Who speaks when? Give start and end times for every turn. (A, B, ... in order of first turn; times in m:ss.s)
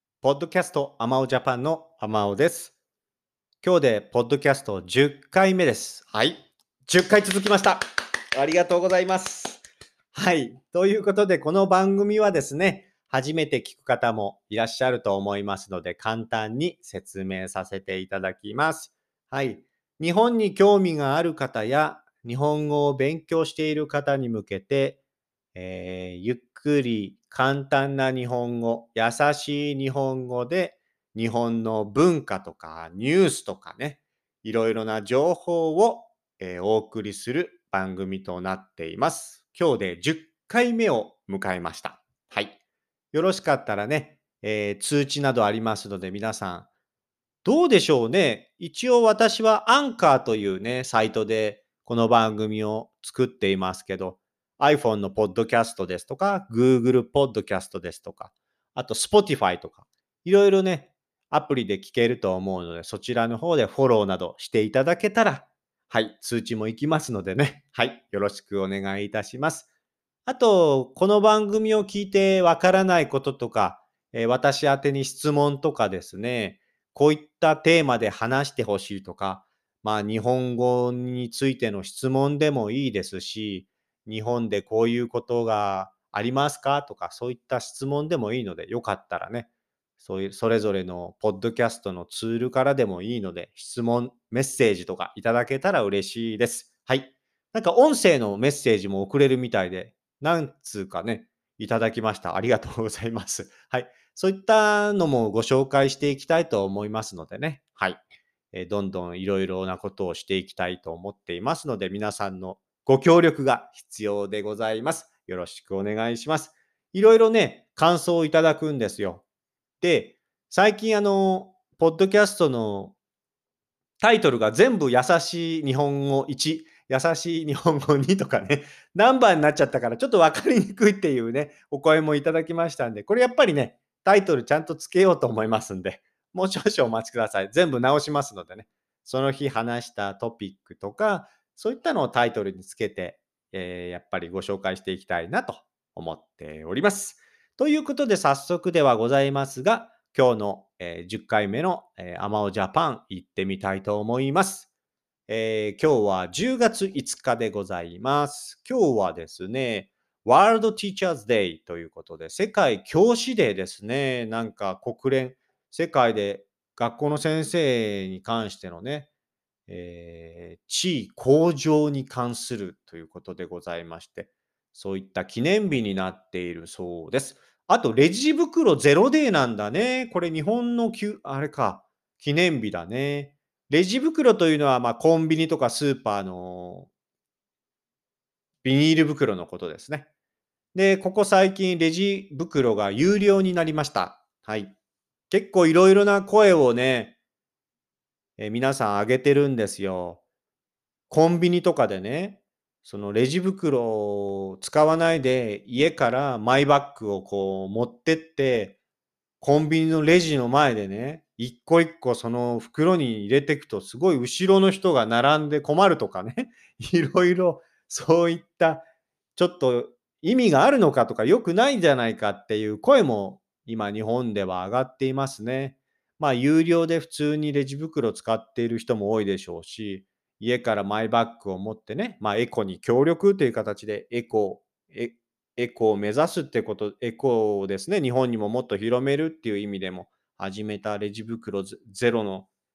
0:00.2-0:02.8 A
0:03.6-0:09.6 A
0:10.1-0:25.0 A
0:25.6-0:42.6 A
0:43.1-0:46.7 A
0:47.4-1:09.7 A
1:10.3-1:29.5 A
1:30.0-1:48.0 A
1:48.5-1:59.2 A
1:59.8-2:02.9 A
2:04.0-2:34.7 A
2:35.3-2:49.1 A
2:49.7-3:06.9 A
3:08.6-3:10.1 A
3:10.7-3:14.7 A
3:15.3-3:17.2 A
3:18.4-3:20.2 A
3:21.1-3:28.8 A
3:29.4-4:02.5 A